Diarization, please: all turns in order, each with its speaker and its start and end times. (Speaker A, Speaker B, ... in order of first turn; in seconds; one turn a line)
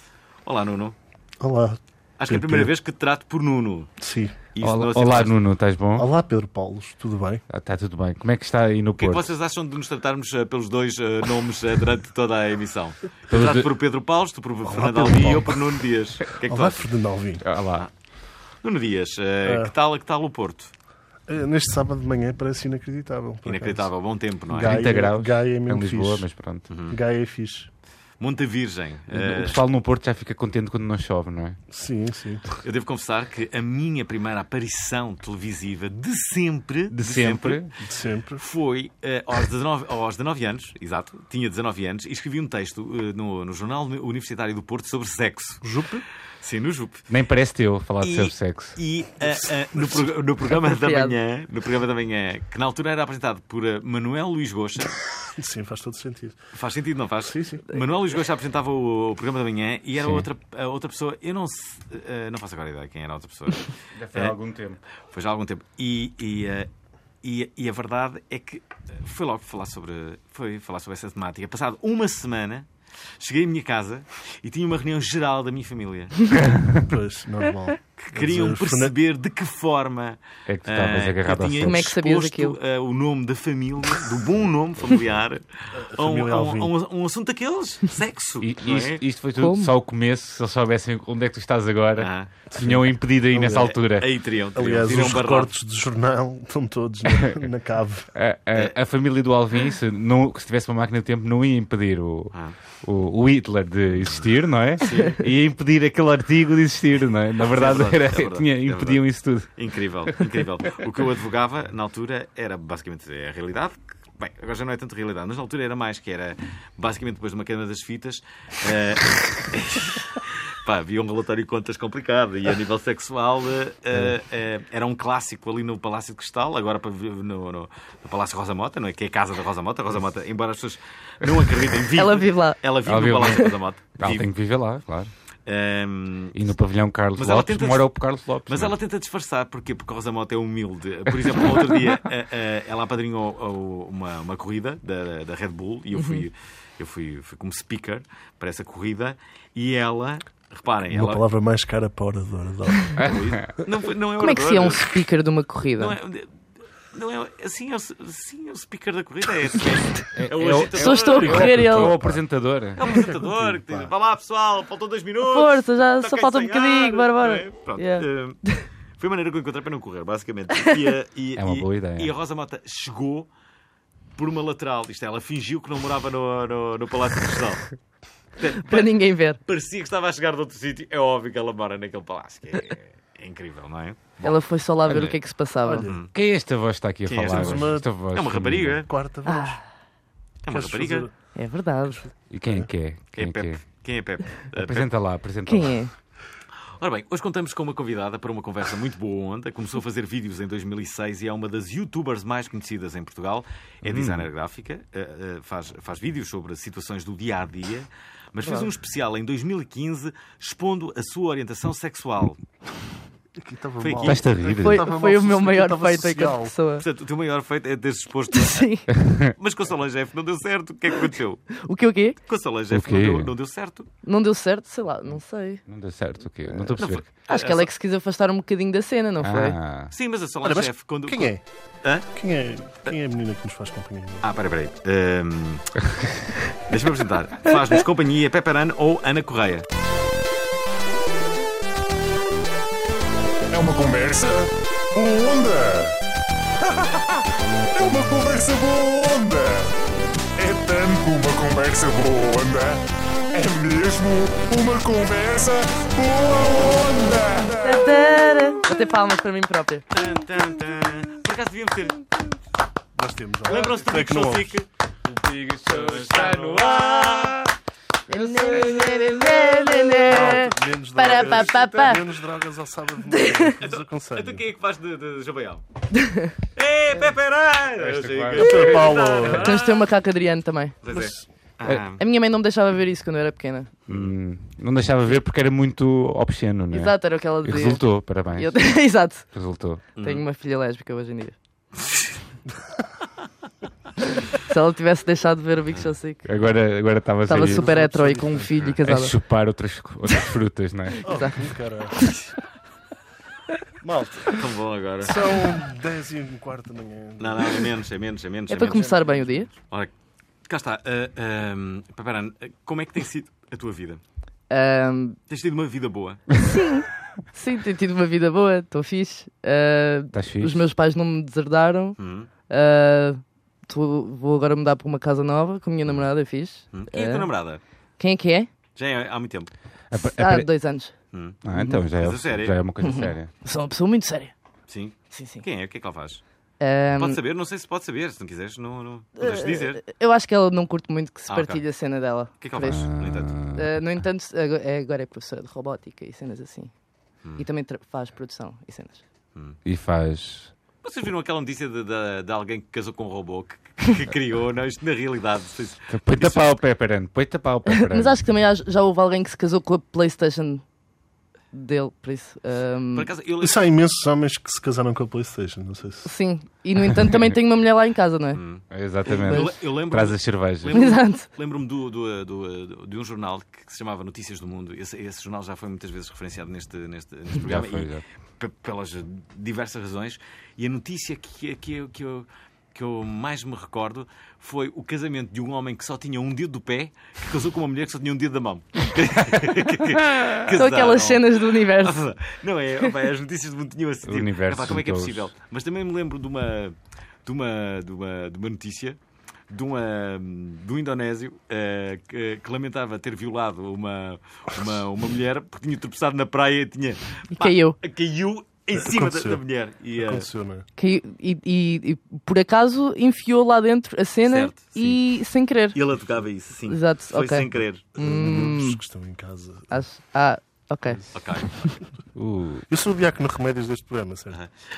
Speaker A: 0.5-0.9
Speaker B: 1.4-2.7
Speaker A: 2.2-3.9
Speaker B: 4.0-4.3
Speaker A: 4.5-5.3
Speaker C: 4.6-6.1
Speaker B: 6.0-7.4
Speaker C: 7.5-9.3
Speaker A: 9.0-16.9
Speaker C: 13.3-13.7
Speaker B: 14.7-15.6
Speaker B: 16.4-17.4
Speaker C: 17.4-17.9
Speaker A: 18.6-20.7
Speaker B: 19.4-19.7
Speaker B: 21.3-23.9
Speaker A: 23.4-24.8
Speaker B: 24.5-26.2
Speaker C: 24.6-26.6
Speaker A: 26.7-27.0
Speaker B: 26.9-27.7
Speaker A: 28.2-29.6
Speaker C: 29.1-31.6
Speaker B: 31.7-32.4
Speaker A: 32.6-37.6
Speaker C: 36.9-37.7
Speaker B: 37.8-38.4
Speaker A: 38.4-45.6
Speaker B: 45.6-46.0
Speaker A: 46.4-47.0
Speaker C: 47.1-48.8
Speaker A: 48.0-55.0
Speaker B: 49.7-50.1
Speaker D: 50.6-51.2
Speaker B: 55.3-56.4
Speaker A: 56.5-64.3
Speaker B: 57.2-57.6
Speaker C: 60.0-60.3
Speaker C: 63.9-64.8
Speaker A: 65.1-66.7
Speaker A: 67.2-72.7
Speaker A: 73.2-76.3
Speaker C: 76.4-76.7
Speaker B: 76.8-78.9
Speaker A: 78.0-85.4
Speaker C: 80.5-81.9
Speaker D: 81.6-82.5
Speaker B: 85.7-86.7
Speaker A: 85.9-89.0
Speaker C: 88.4-94.1
Speaker D: 89.4-89.7
Speaker A: 92.0-92.3
Speaker B: 92.5-93.7
Speaker A: 93.7-95.5
Speaker B: 94.5-98.1
Speaker C: 98.1-110.3
Speaker A: 103.9-104.3
Speaker A: 104.8-105.2
Speaker A: 107.5-134.3
Speaker D: 132.0-132.6
Speaker C: 132.8-135.1
Speaker A: 135.4-136.4
Speaker C: 136.3-138.7
Speaker A: 137.2-137.9
Speaker A: 138.4-151.2
Speaker B: 150.9-153.1
Speaker C: 153.0-153.3
Speaker A: 153.1-155.0
Speaker D: 154.2-155.9
Speaker A: 155.8-156.3
Speaker A: 156.9-161.5
Speaker C: 160.1-162.8
Speaker D: 160.8-161.9
Speaker B: 161.1-162.2
Speaker A: 162.8-168.4
Speaker B: 162.8-163.9
Speaker D: 165.2-168.6
Speaker A: 169.0-173.3
Speaker C: 171.3-172.1
Speaker A: 174.2-177.7
Speaker A: 178.4-178.9
Speaker D: 178.6-179.4
Speaker A: 179.4-184.3
Speaker D: 184.2-185.9
Speaker C: 184.9-185.1
Speaker B: 185.6-185.9
Speaker A: 185.8-186.1
Speaker C: 186.1-188.8
Speaker A: 187.1-188.9
Speaker B: 187.3-187.8
Speaker B: 188.9-189.6
Speaker D: 189.2-189.6
Speaker A: 190.4-191.1
Speaker B: 190.5-191.1
Speaker D: 191.3-192.1
Speaker B: 192.0-192.7
Speaker C: 192.3-193.6
Speaker A: 193.2-194.9
Speaker C: 194.5-195.8
Speaker D: 195.5-195.9
Speaker A: 196.8-212.4
Speaker C: 203.8-204.3
Speaker B: 208.4-208.7
Speaker B: 213.4-216.5
Speaker A: 213.8-214.3
Speaker C: 214.0-214.8
Speaker D: 214.6-216.8
Speaker A: 216.8-221.5
Speaker D: 218.3-218.9
Speaker C: 219.1-219.3
Speaker D: 221.6-222.2
Speaker A: 222.2-223.9
Speaker C: 222.7-223.3
Speaker D: 224.0-225.6
Speaker C: 225.7-227.1
Speaker D: 226.5-229.6
Speaker A: 226.8-227.7
Speaker C: 229.2-229.9
Speaker A: 229.9-232.1
Speaker B: 230.4-231.4
Speaker B: 232.1-234.2
Speaker A: 234.2-235.8
Speaker A: 236.7-239.6
Speaker E: 243.5-246.0
Speaker E: 246.7-247.2
Speaker E: 247.7-249.7
Speaker E: 250.3-258.2
Speaker D: 257.6-259.8
Speaker A: 259.9-262.1
Speaker B: 262.9-264.6
Speaker A: 263.4-264.7
Speaker C: 265.1-267.5
Speaker A: 265.6-267.4
Speaker D: 268.1-272.0
Speaker C: 268.1-269.7
Speaker B: 269.9-274.4
Speaker D: 273.1-273.5
Speaker A: 273.6-275.6
Speaker D: 275.9-276.3
Speaker A: 276.6-279.9
Speaker C: 277.8-279.1
Speaker B: 278.3-279.5
Speaker D: 279.2-280.8
Speaker A: 280.8-282.0
Speaker B: 280.9-281.2
Speaker D: 282.0-283.7
Speaker A: 283.9-284.1
Speaker C: 283.9-288.8
Speaker D: 286.7-289.3
Speaker C: 289.3-289.8
Speaker D: 289.9-291.4
Speaker A: 290.0-290.2
Speaker A: 291.8-292.1
Speaker D: 294.4-296.3
Speaker C: 296.2-297.7
Speaker D: 297.3-299.1
Speaker B: 297.3-298.5
Speaker C: 298.8-301.0
Speaker D: 301.0-301.3
Speaker B: 301.0-302.1
Speaker B: 303.8-304.4
Speaker A: 304.3-305.3
Speaker B: 305.0-307.7
Speaker A: 307.2-309.9
Speaker D: 308.5-309.5
Speaker A: 310.5-314.0
Speaker D: 314.5-315.2
Speaker A: 315.3-316.3
Speaker D: 316.4-327.3
Speaker C: 320.1-320.6
Speaker A: 322.0-322.3
Speaker A: 326.7-327.6
Speaker D: 328.0-328.5
Speaker A: 328.8-329.5
Speaker C: 329.9-330.5
Speaker D: 329.9-330.9
Speaker A: 331.1-331.4
Speaker C: 331.4-333.3
Speaker D: 331.5-331.8
Speaker A: 332.0-332.5
Speaker D: 332.8-334.3
Speaker A: 334.7-336.2
Speaker D: 335.1-335.4
Speaker D: 336.6-337.2
Speaker A: 337.0-339.8
Speaker D: 339.2-342.9
Speaker A: 341.3-341.6
Speaker A: 342.4-343.4
Speaker C: 342.6-343.8
Speaker D: 343.5-346.7
Speaker D: 347.4-349.0
Speaker C: 349.6-350.5
Speaker A: 350.8-356.5
Speaker C: 355.9-358.2
Speaker D: 357.7-360.6
Speaker D: 361.5-363.1
Speaker A: 362.9-363.6
Speaker B: 363.4-366.1
Speaker D: 366.0-368.4
Speaker C: 367.0-367.3
Speaker A: 368.3-399.0
Speaker C: 368.7-370.8
Speaker D: 369.3-369.5
Speaker D: 370.7-371.2
Speaker C: 377.4-378.0
Speaker C: 390.0-390.3
Speaker D: 390.5-392.0
Speaker C: 394.0-395.3
Speaker A: 399.5-410.3
Speaker D: 407.4-407.8
Speaker B: 408.7-409.4
Speaker B: 410.0-410.6
Speaker D: 410.8-415.8
Speaker A: 414.2-415.0
Speaker A: 415.7-417.8
Speaker D: 416.7-418.8
Speaker B: 417.9-419.7
Speaker D: 419.7-421.0
Speaker A: 421.1-421.5
Speaker C: 422.1-422.7
Speaker B: 422.7-424.4